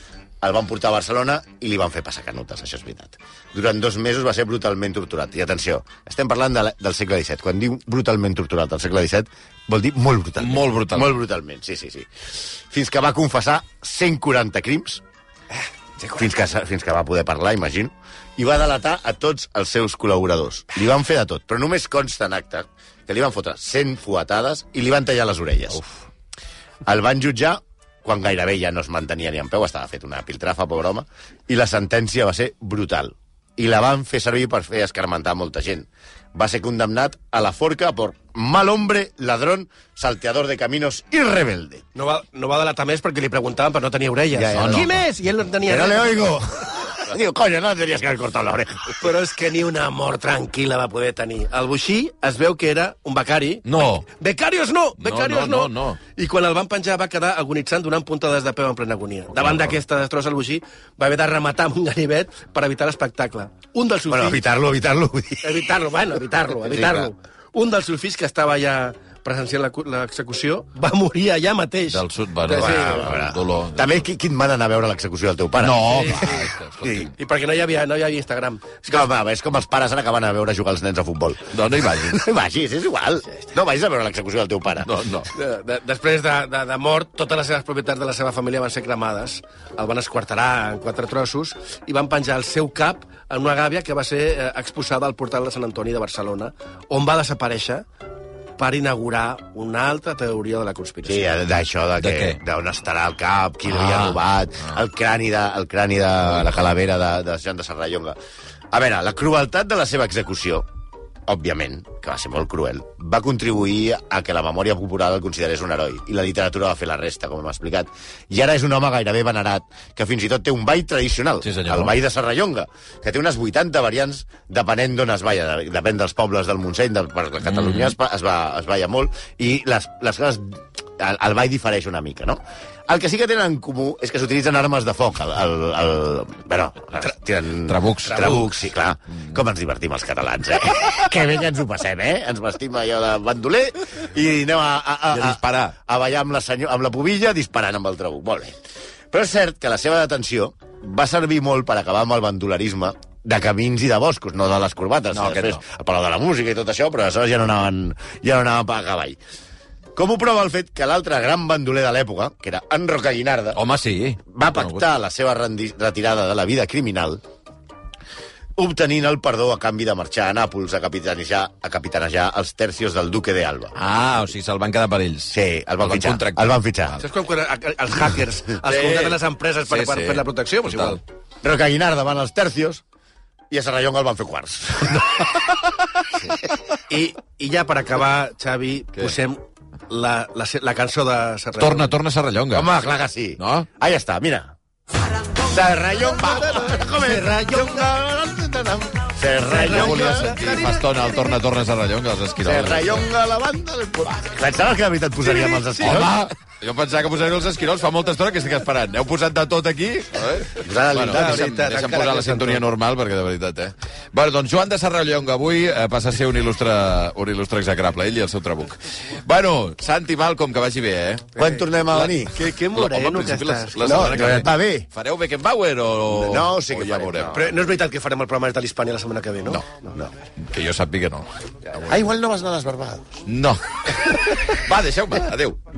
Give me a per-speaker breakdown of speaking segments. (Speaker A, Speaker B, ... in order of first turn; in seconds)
Speaker A: 0.4-12.1, 12.7-15.0, 16.1-25.8, 26.8-41.8, 44.3-45.0, 45.6-49.1, 64.1-65.7, 66.6-67.1, 72.6-77.1, 78.9-84.9, 101.0-108.2, 108.7-110.7, 111.3-148.6, 149.1-159.2, 159.9-163.6, 164.3-167.2, 168.6-173.7, 175.3-177.0, 181.4-182.8, 183.5-185.3, 192.5-194.5, 195.3-200.3, 202.4-206.2, 210.5-211.5, 221.3-222.3, 223.8-224.9, 226.1-227.5, 231.8-233.2
Speaker B: 10.4-11.1, 44.5-44.9, 53.6-54.0, 55.0-56.0, 71.9-74.0, 75.6-77.1, 81.5-82.2, 84.8-85.3, 102.0-102.4, 103.7-104.2, 121.4-121.9, 127.4-127.9, 137.7-138.5, 145.1-145.7, 155.1-155.6, 163.5-164.8, 173.7-177.0, 178.6-181.0, 191.6-192.7, 193.4-193.7, 199.5-203.0, 205.3-221.3, 222.6-227.3, 230.4-231.3, 233.2-235.6
Speaker C: 42.0-46.4, 49.0-64.4, 65.4-73.1, 75.8-76.5, 77.2-79.1, 85.3-97.8, 98.6-101.3, 177.0-181.0, 186.9-191.9, 196.2-197.9, 199.4-201.2, 211.1-212.6, 221.4-224.4, 227.3-229.9